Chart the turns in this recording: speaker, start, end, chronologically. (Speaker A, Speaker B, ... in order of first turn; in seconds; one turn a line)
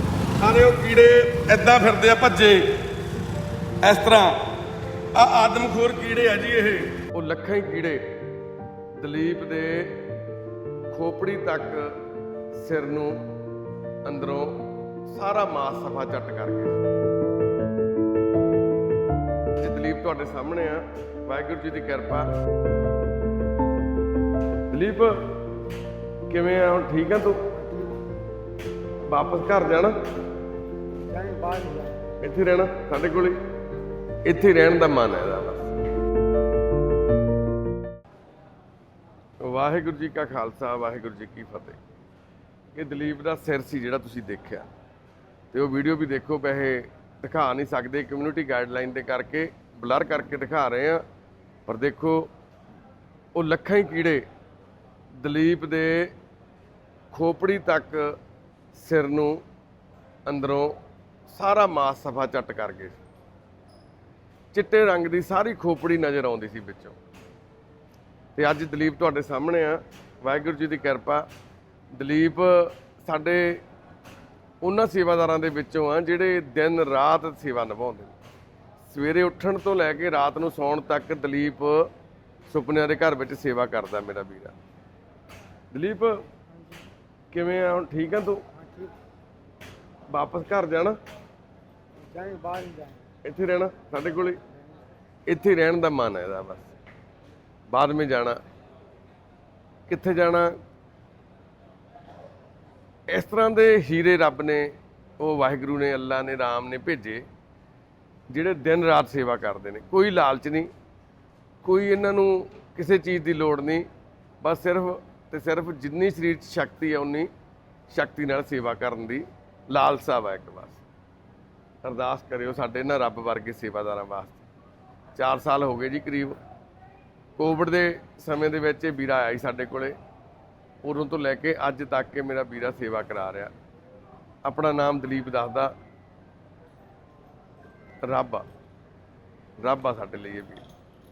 Speaker A: 0.4-2.8
Speaker A: 3.8-4.4
Speaker A: 5.1-8.1
Speaker A: 9.0-10.0
Speaker A: 10.9-12.0
Speaker A: 12.5-13.2
Speaker A: 14.0-16.8
Speaker A: 19.6-22.3
Speaker A: 24.7-25.2
Speaker A: 26.3-27.5
Speaker A: 29.1-30.0
Speaker B: 31.0-32.1
Speaker A: 32.2-33.4
Speaker A: 34.2-35.7
Speaker A: 39.4-41.8
Speaker A: 42.7-44.7
Speaker A: 45.5-51.0
Speaker A: 51.6-52.3
Speaker A: 53.3-54.2
Speaker A: 55.2-56.1
Speaker A: 57.1-58.2
Speaker A: 58.7-59.4
Speaker A: 60.2-60.7
Speaker A: 61.3-63.0
Speaker A: 64.5-67.0
Speaker A: 68.3-71.2
Speaker A: 71.9-73.6
Speaker A: 74.6-78.1
Speaker A: 78.8-81.9
Speaker A: 82.5-84.5
Speaker A: 85.7-86.2
Speaker A: 87.3-88.5
Speaker B: 88.5-88.9
Speaker A: 90.1-91.0
Speaker B: 92.0-93.0
Speaker A: 93.2-94.4
Speaker A: 95.3-96.7
Speaker A: 97.7-98.4
Speaker A: 99.9-100.6
Speaker A: 103.1-107.2
Speaker A: 108.3-110.7
Speaker A: 111.6-113.8
Speaker A: 114.4-117.3
Speaker A: 117.9-120.8
Speaker A: 121.8-124.4
Speaker A: 125.2-126.4
Speaker A: 127.4-129.9
Speaker A: 130.8-133.5
Speaker A: 134.4-135.7
Speaker A: 138.1-138.4
Speaker A: 139.6-140.6